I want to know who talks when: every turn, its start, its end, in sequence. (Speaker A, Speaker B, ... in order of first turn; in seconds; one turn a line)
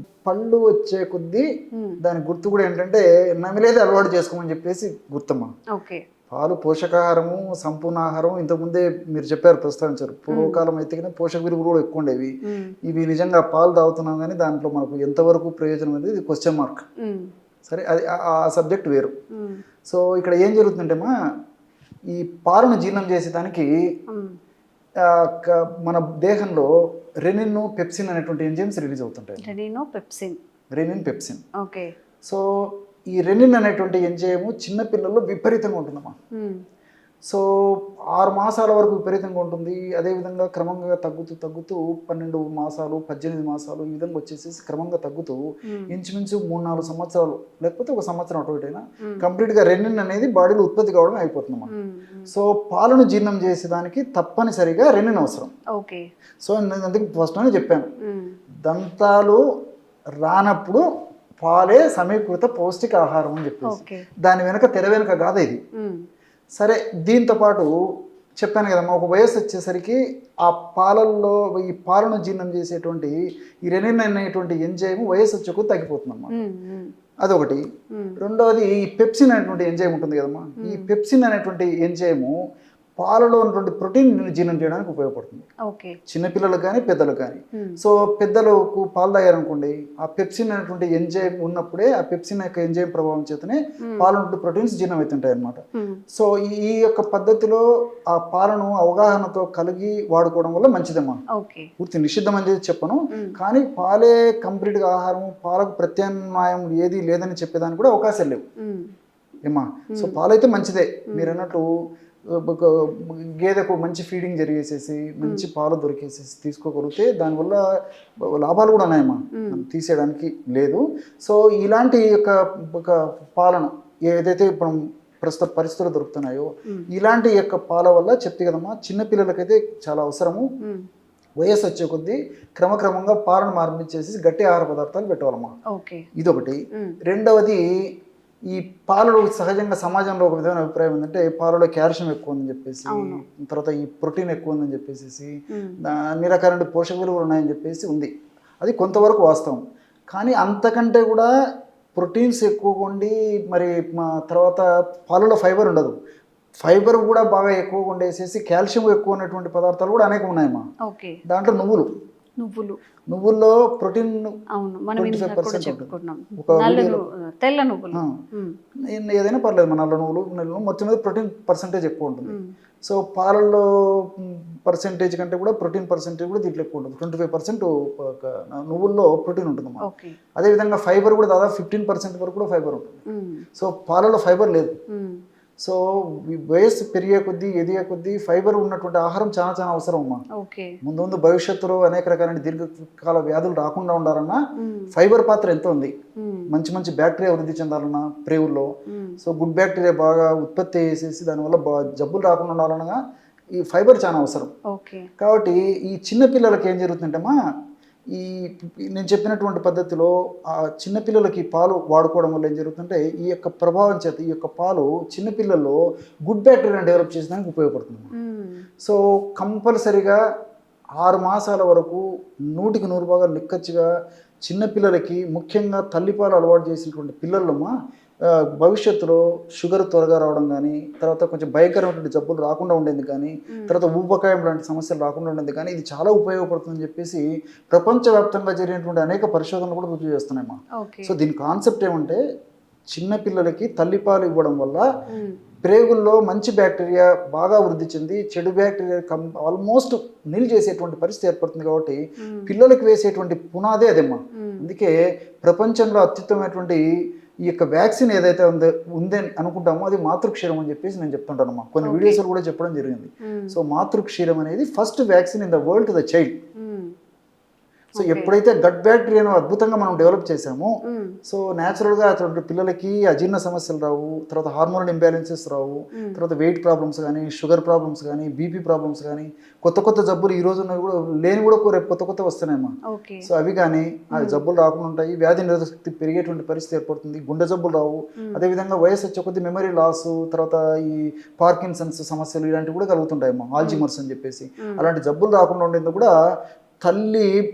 Speaker A: 0.2-1.5
Speaker B: 1.7-2.0
Speaker A: 2.0-5.5
Speaker B: 5.7-6.0
Speaker A: 6.3-12.3
Speaker B: 10.3-10.6
Speaker B: 12.4-12.7
Speaker A: 12.9-16.9
Speaker B: 17.0-17.3
Speaker A: 17.6-19.2
Speaker B: 19.3-19.6
Speaker A: 19.9-21.1
Speaker A: 22.1-23.7
Speaker B: 24.1-24.4
Speaker A: 25.0-26.7
Speaker A: 27.2-29.5
Speaker B: 29.4-30.4
Speaker A: 30.7-31.4
Speaker B: 31.6-31.9
Speaker A: 32.2-36.1
Speaker B: 36.3-36.6
Speaker A: 37.3-51.7
Speaker B: 45.7-45.9
Speaker B: 51.7-52.3
Speaker A: 52.3-55.5
Speaker B: 55.7-56.0
Speaker A: 56.4-57.9
Speaker B: 58.0-58.4
Speaker A: 58.6-59.4
Speaker A: 60.2-60.8
Speaker A: 61.4-65.6
Speaker B: 63.7-64.0
Speaker B: 65.8-66.0
Speaker A: 66.6-67.7
Speaker A: 68.4-76.4
Speaker B: 76.3-76.9
Speaker A: 77.2-77.6
Speaker B: 77.9-78.2
Speaker A: 78.2-82.3
Speaker B: 80.6-80.9
Speaker A: 83.0-85.5
Speaker B: 85.7-86.0
Speaker A: 86.1-95.6
Speaker B: 93.8-94.1
Speaker B: 95.7-96.0
Speaker A: 96.1-101.2
Speaker B: 101.3-101.7
Speaker A: 101.8-108.4
Speaker B: 108.6-108.9
Speaker A: 109.4-111.7
Speaker A: 112.3-117.6
Speaker A: 118.2-130.5
Speaker B: 119.3-119.6
Speaker A: 131.4-135.5
Speaker B: 135.7-136.1
Speaker A: 136.2-137.6
Speaker A: 138.5-151.3
Speaker B: 142.9-143.2
Speaker B: 145.5-145.8
Speaker A: 151.9-155.9
Speaker A: 156.6-160.7
Speaker B: 160.8-161.2
Speaker A: 161.3-161.9
Speaker B: 162.4-162.8
Speaker A: 163.1-164.4
Speaker B: 164.5-168.5
Speaker A: 165.0-167.0
Speaker A: 168.9-179.8
Speaker B: 179.8-180.2
Speaker A: 180.4-183.0
Speaker B: 183.1-183.4
Speaker A: 183.6-184.7
Speaker B: 184.9-185.2
Speaker A: 185.6-190.2
Speaker B: 190.3-190.8
Speaker A: 190.8-194.4
Speaker B: 194.6-194.9
Speaker A: 194.9-195.9
Speaker B: 196.2-196.5
Speaker A: 196.5-203.0
Speaker B: 198.9-199.2
Speaker A: 203.5-204.5
Speaker B: 204.7-205.1
Speaker A: 205.2-207.3
Speaker A: 208.1-218.1
Speaker B: 218.1-218.6
Speaker A: 218.8-220.2
Speaker A: 221.0-223.9
Speaker A: 224.4-227.7
Speaker A: 228.3-242.2
Speaker B: 240.8-241.1
Speaker A: 242.9-244.8
Speaker B: 245.1-245.4
Speaker A: 245.6-256.8
Speaker B: 252.2-252.5
Speaker B: 254.3-254.7
Speaker A: 257.4-266.4
Speaker B: 261.8-262.2
Speaker B: 263.2-263.6
Speaker B: 266.6-266.9
Speaker B: 267.9-268.3
Speaker A: 267.9-270.7
Speaker B: 270.8-271.2
Speaker A: 271.2-296.1
Speaker B: 275.9-276.2
Speaker B: 282.9-283.3
Speaker B: 284.1-284.4
Speaker B: 293.6-293.8
Speaker A: 296.8-297.3